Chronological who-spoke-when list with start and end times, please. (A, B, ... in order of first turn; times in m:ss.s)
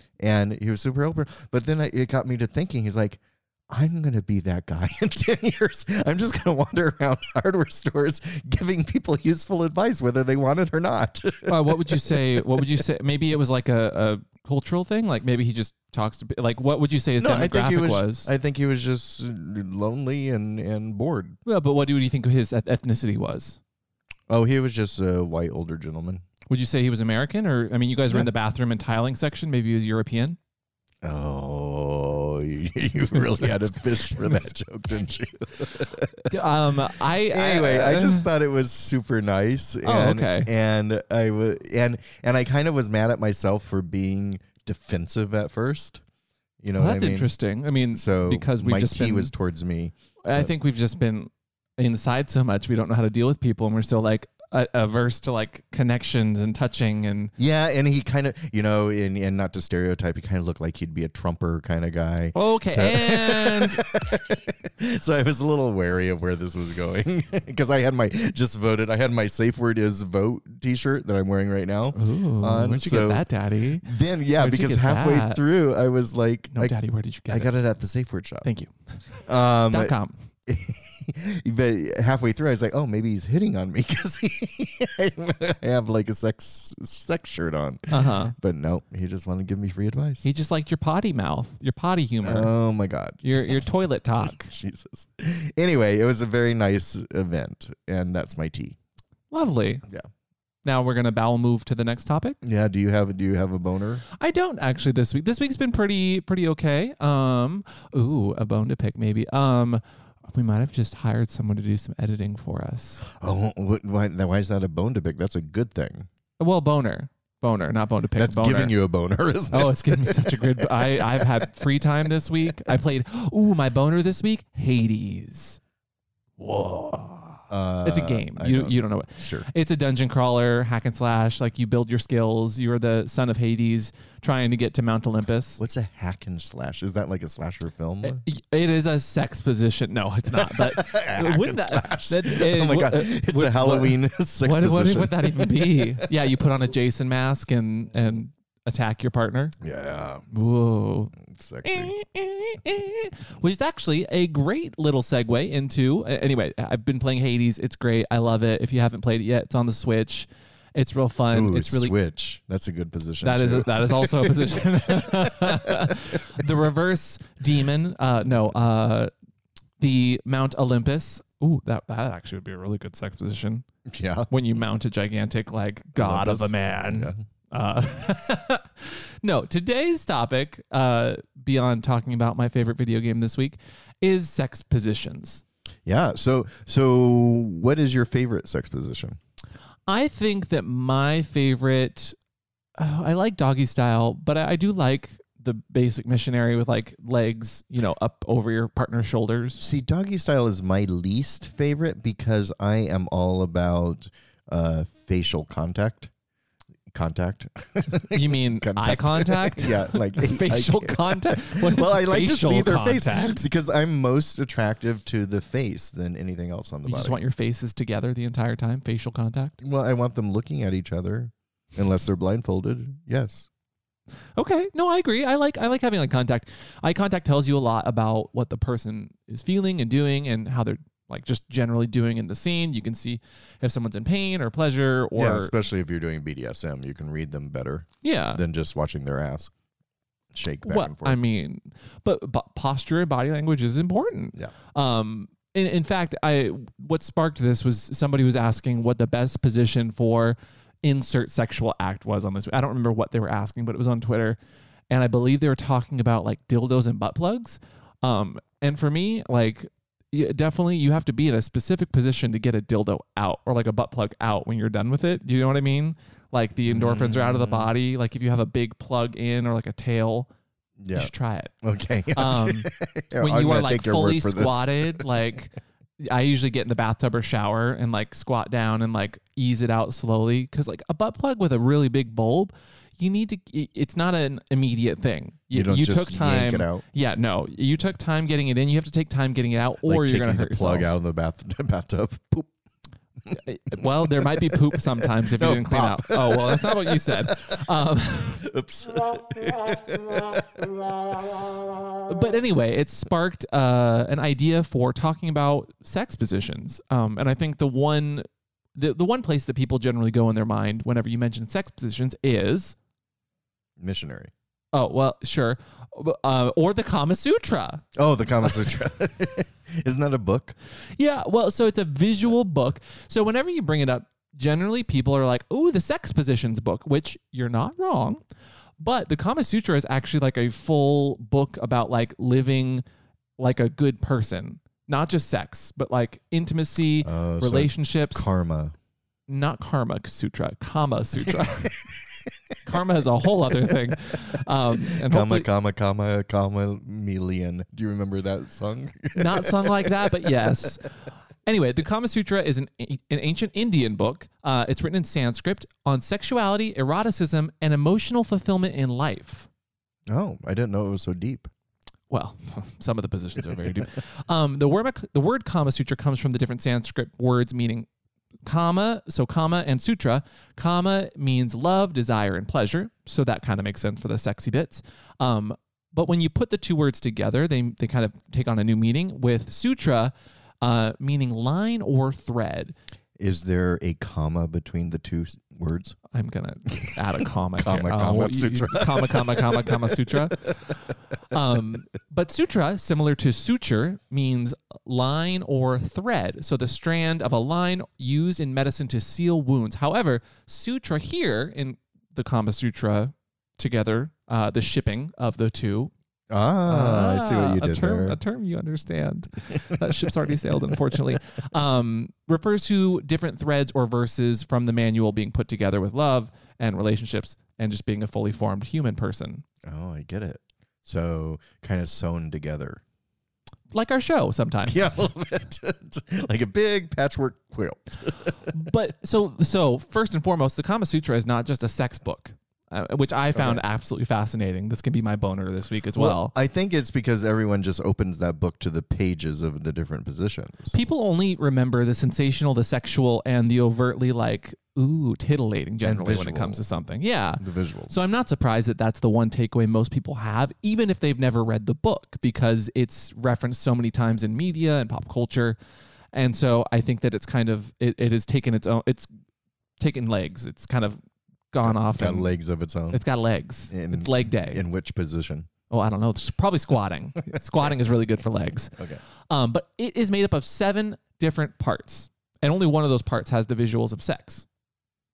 0:00.2-0:12.8 A
0:11.5-0:18.3 B
0:17.2-0:21.4 A
0:21.4-0:23.6 B
0:24.3-0:26.2 A
0:26.5-0:30.4 B
0:31.0-0:36.3 A
0:33.4-0:34.3 B
0:36.3-0:38.3 B
0:37.2-0:46.0 A
0:39.8-0:40.5 B
0:46.6-0:47.3 A
0:46.7-0:49.3 B
0:47.9-0:50.5 A
0:50.2-0:57.3 B
0:57.4-1:13.2 A
1:02.3-1:03.9 B
1:11.9-1:15.4 B
1:13.8-1:16.8 A
1:16.5-1:17.5 B
1:17.3-1:18.4 A
1:18.4-1:18.7 B
1:19.2-1:19.9 A
1:19.7-1:20.1 B
1:20.4-1:30.2 A
1:27.9-1:28.3 B
1:30.2-1:32.5 B
1:32.2-1:33.6 A
1:33.2-1:34.5 B
1:34.2-1:38.8 A
1:39.3-1:39.8 B
1:40.6-1:42.4 B
1:42.4-1:44.0 A
1:44.1-1:53.0 B
1:53.1-1:56.1 A
1:56.4-1:58.7 B
1:58.2-2:01.4 A
1:59.5-2:05.6 B
2:06.4-2:15.6 B
2:07.5-2:09.5 A
2:15.6-2:18.2 A
2:18.0-2:29.6 B
2:20.3-2:26.1 A
2:29.6-2:30.2 A
2:30.3-2:41.9 B
2:31.2-2:31.9 A
2:41.3-2:46.2 A
2:43.2-2:49.1 B
2:49.8-2:53.6 B
2:53.9-2:54.3 A
2:54.3-3:05.4 B
2:56.0-2:57.2 A
3:05.8-3:09.2 A
3:09.9-3:12.2 B
3:12.8-3:19.6 B
3:19.6-3:26.1 A
3:26.9-3:37.2 A
3:28.1-3:33.4 B
3:36.8-3:39.6 B
3:39.6-3:43.5 A
3:44.4-3:55.5 B
3:55.2-3:59.5 A
3:58.0-3:58.4 B
4:00.3-4:01.2 A
4:00.6-4:14.4 B
4:14.9-4:30.3 B
4:26.7-4:27.7 A
4:30.8-4:35.0 A
4:30.9-4:31.5 B
4:32.1-4:50.9 B
4:45.5-4:46.8 A
4:49.8-4:52.5 A
4:53.3-4:57.6 A
4:53.3-4:58.4 B
4:58.2-5:01.4 A
5:02.0-5:08.2 B
5:08.8-5:12.8 B
5:13.8-5:14.3 A
5:14.7-5:17.8 B
5:17.9-5:20.5 A
5:21.0-5:28.2 B
5:28.8-5:32.8 B
5:33.4-5:38.2 B
5:37.0-5:38.7 A
5:39.3-5:41.8 B
5:41.3-5:41.7 A
5:42.6-5:45.5 B
5:44.8-5:50.5 A
5:49.1-5:50.9 B
5:51.4-5:59.5 B
6:00.1-6:01.5 A
6:02.1-6:07.9 B
6:08.4-6:22.7 B
6:23.2-6:26.0 A
6:26.1-6:45.9 B
6:27.6-6:30.3 A
6:46.3-6:48.2 A
6:46.7-6:59.4 B
6:49.7-6:51.0 A
6:59.6-7:02.8 A
7:03.7-7:04.9 B
7:04.7-7:08.5 A
7:08.5-7:16.3 B
7:13.3-7:13.6 A
7:16.0-7:20.8 A
7:20.7-7:35.6 B
7:25.8-7:26.6 A
7:27.4-7:27.9 A
7:36.1-7:39.1 B
7:39.8-7:41.0 B
7:41.5-7:42.3 B
7:41.6-7:43.0 A
7:42.9-7:44.6 B
7:43.7-7:45.5 A
7:45.7-7:54.4 B
7:47.3-7:47.8 A